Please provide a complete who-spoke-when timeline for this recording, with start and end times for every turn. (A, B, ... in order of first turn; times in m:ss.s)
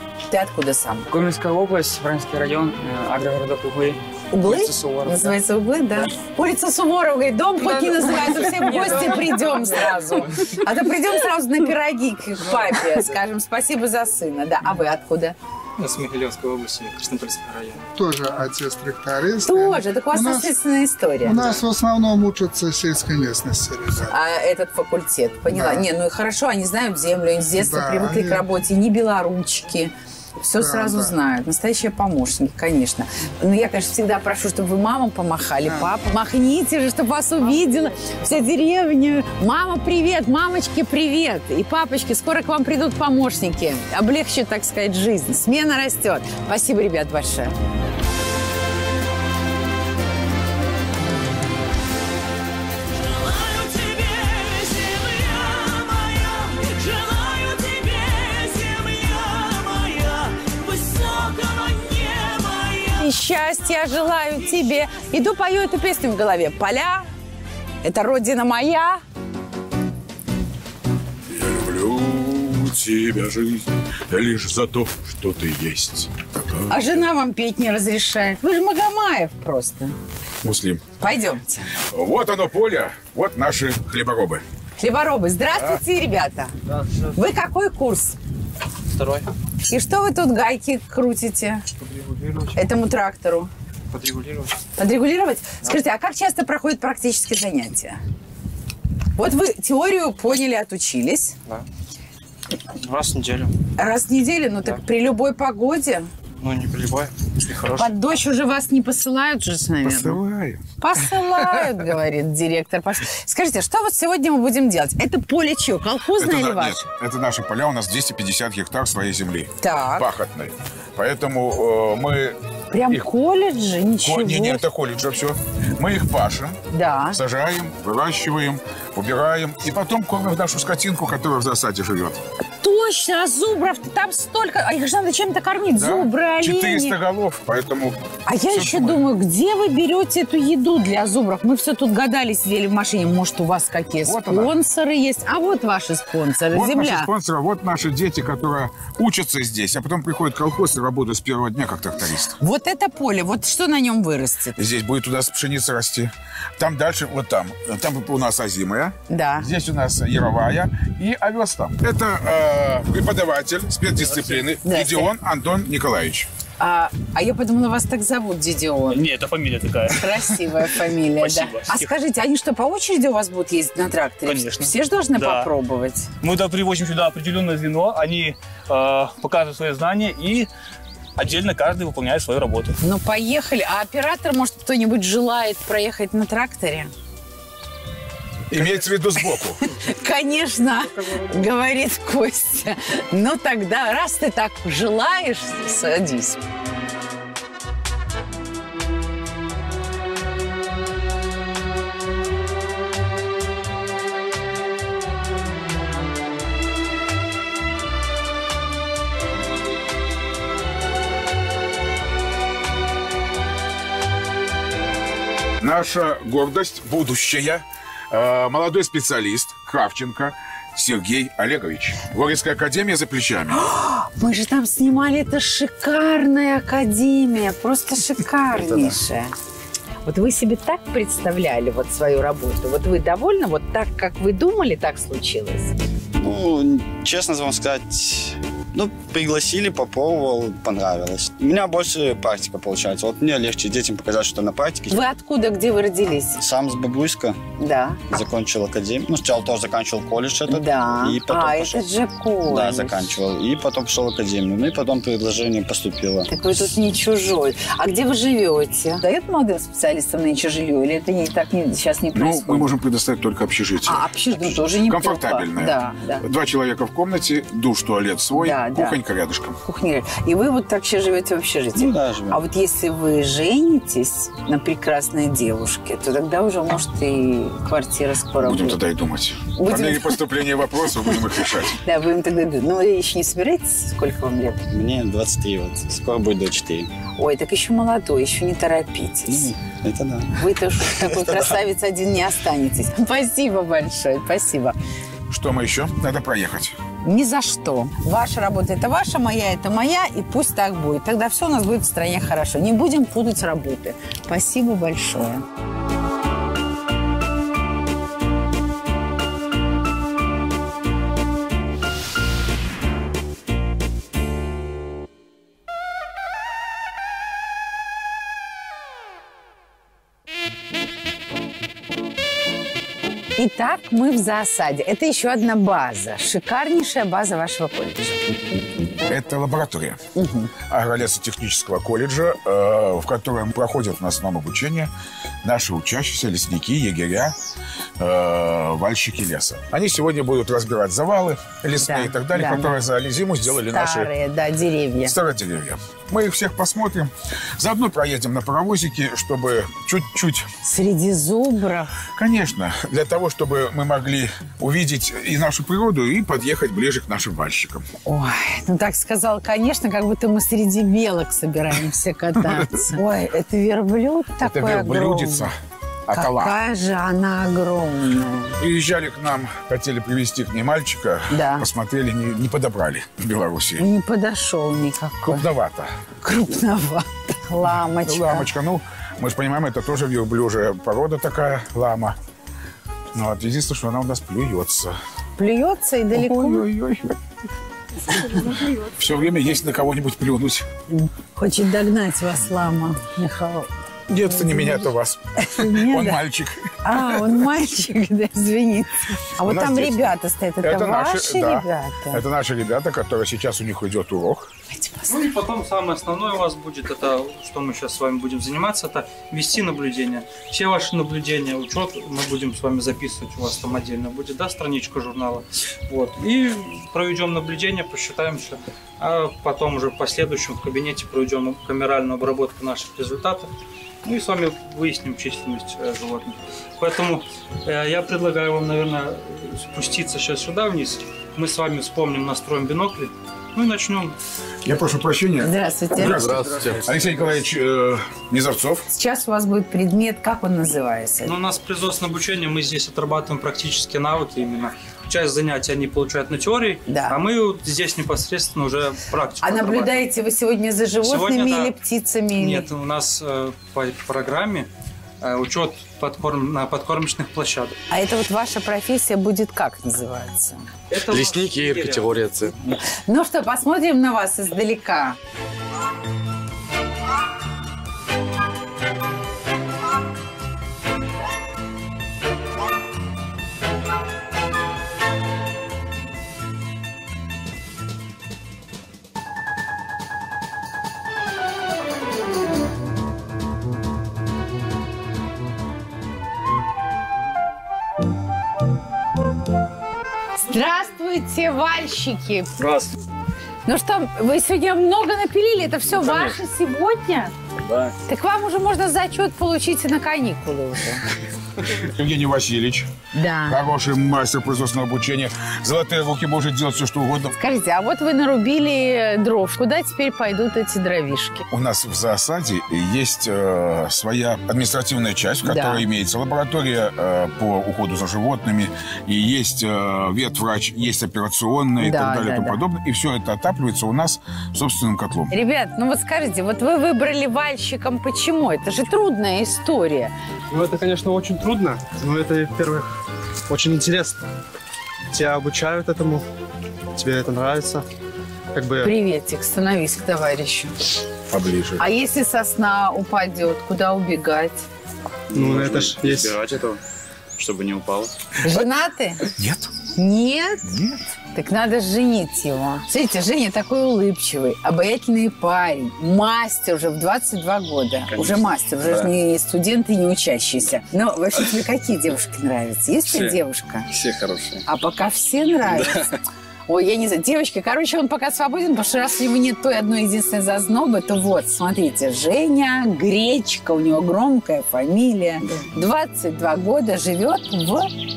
0:00.3-0:01.1 A
0:01.1-0:05.4 B
0:04.3-0:15.4 A
0:07.6-0:09.7 B
0:15.8-0:17.8 C
0:18.0-0:20.5 D
0:19.4-0:21.6 A
0:21.2-0:24.2 D
0:24.1-0:47.5 A
0:25.5-0:25.9 D
0:27.5-0:28.4 D
0:30.6-0:31.2 D
0:35.6-0:35.9 D
1:03.0-1:07.1 A
1:07.8-1:09.0 A
1:11.3-1:17.0 E
1:16.7-1:20.0 A
1:20.4-1:20.8 E
1:21.0-1:21.6 A
1:21.9-1:24.4 E
1:24.8-1:26.5 A
1:27.2-1:28.2 A
1:29.7-1:31.6 A
1:32.5-1:33.5 A
1:34.0-1:34.4 C
1:34.8-1:38.0 A
1:39.2-1:41.4 A
1:42.8-1:43.5 C
1:43.8-1:46.1 A
1:46.4-1:47.8 C
1:47.7-1:50.2 A
1:49.8-1:51.7 E
1:50.8-1:56.8 A
1:56.2-2:02.4 E
1:59.6-2:00.1 A
2:02.7-2:04.6 A
2:04.0-2:06.6 E
2:06.7-2:07.2 A
2:07.1-2:12.2 E
2:12.6-2:17.0 A
2:15.8-2:18.0 E
2:18.3-2:27.1 A
2:18.5-2:19.1 E
2:24.0-2:24.6 E
2:26.5-2:32.4 E
2:32.4-2:34.6 A
2:34.6-2:46.3 E
2:39.1-2:39.5 A
2:44.6-2:45.1 A
2:46.6-2:49.0 A
2:48.9-2:50.5 F
2:49.9-2:56.1 A
2:51.2-2:51.9 F
2:54.2-2:55.5 F
2:56.2-3:00.5 F
3:01.2-3:02.7 F
3:02.8-3:06.9 A
3:08.5-3:09.6 E
3:09.7-3:16.4 A
3:35.6-3:43.6 E
3:43.5-3:49.3 A
3:48.5-3:49.0 G
3:50.0-3:55.7 A
3:56.2-4:05.1 G
4:04.9-4:06.4 A
4:06.4-4:07.4 G
4:07.6-4:08.0 A
4:08.1-4:11.9 G
4:10.5-4:13.1 A
4:12.4-4:16.3 G
4:16.3-4:22.7 A
4:22.1-4:29.6 E
4:23.9-4:26.2 A
4:28.4-4:29.0 A
4:29.6-4:38.8 A
4:31.8-4:32.4 G
4:38.4-4:41.8 E
4:39.6-4:40.2 A
4:41.7-4:44.6 A
4:44.7-4:46.9 G
4:47.2-4:49.5 A
4:49.3-4:50.4 G
4:50.4-4:54.8 A
4:51.0-4:51.5 G
4:55.3-4:56.8 E
4:57.0-5:05.4 A
5:23.4-5:28.6 A
5:29.0-5:30.0 E
5:30.2-5:30.5 A
5:30.7-5:34.9 E
5:35.4-5:37.4 E
5:38.0-5:44.1 E
5:41.8-5:42.8 A
5:43.7-5:45.2 A
5:45.0-5:50.5 E
5:50.6-5:51.9 A
5:52.2-5:57.8 E
5:58.0-6:05.5 A
6:02.4-6:02.9 E
6:04.4-6:05.6 E
6:06.1-6:06.6 E
6:06.1-6:08.6 A
6:08.6-6:13.9 E
6:11.3-6:11.7 A
6:13.8-6:15.4 A
6:15.2-6:15.9 E
6:16.2-6:18.5 A
6:18.0-6:22.2 E
6:23.1-6:25.0 E
6:25.4-6:26.6 A
6:26.1-6:27.2 E
6:28.3-6:30.7 E
6:30.9-6:33.7 A
6:34.1-6:37.4 E
6:34.3-6:34.9 A
6:35.4-6:36.2 A
6:36.8-6:42.2 A
6:39.4-6:44.5 E
6:44.7-6:45.1 A
6:45.1-7:03.5 C
7:04.0-7:14.2 C
7:14.6-7:18.9 E
7:15.4-7:16.3 A
7:16.3-7:16.8 H
7:18.9-7:21.3 A
7:21.2-7:30.0 C
7:26.9-7:27.2 A
7:29.4-7:32.7 A
7:31.0-7:31.8 C
7:32.4-7:34.7 C
7:35.2-7:37.8 C
7:37.9-7:40.6 A
7:40.9-7:42.2 C
7:41.1-7:42.5 H
7:42.8-7:45.2 A
8:10.5-8:12.5 A
8:12.6-8:12.9 H
8:13.7-8:17.3 A
8:17.7-8:17.9 H
8:18.0-8:21.0 A
8:21.8-8:22.9 E
8:23.1-8:23.6 A
8:23.5-8:27.3 E
8:27.4-8:31.4 A
8:31.5-8:45.3 E
8:35.4-8:35.8 A
8:41.8-8:42.6 A
8:45.3-8:50.1 A
8:50.5-8:52.9 I
8:53.5-8:54.2 I
8:55.1-8:56.2 I
8:57.0-8:57.8 I
8:58.5-8:58.9 I
8:58.8-9:00.8 A
9:01.3-9:01.8 E
9:01.8-9:04.6 A
9:05.3-9:06.4 I
9:05.4-9:06.7 H
9:07.4-9:08.1 H
9:08.4-9:09.3 A
9:09.4-9:09.7 E
9:10.0-9:10.7 A
9:10.7-9:11.0 E
9:11.3-9:23.9 A
9:18.1-9:19.1 H
9:23.1-9:23.4 H
9:23.9-9:24.6 H
9:24.7-9:26.1 A
9:26.7-9:37.9 A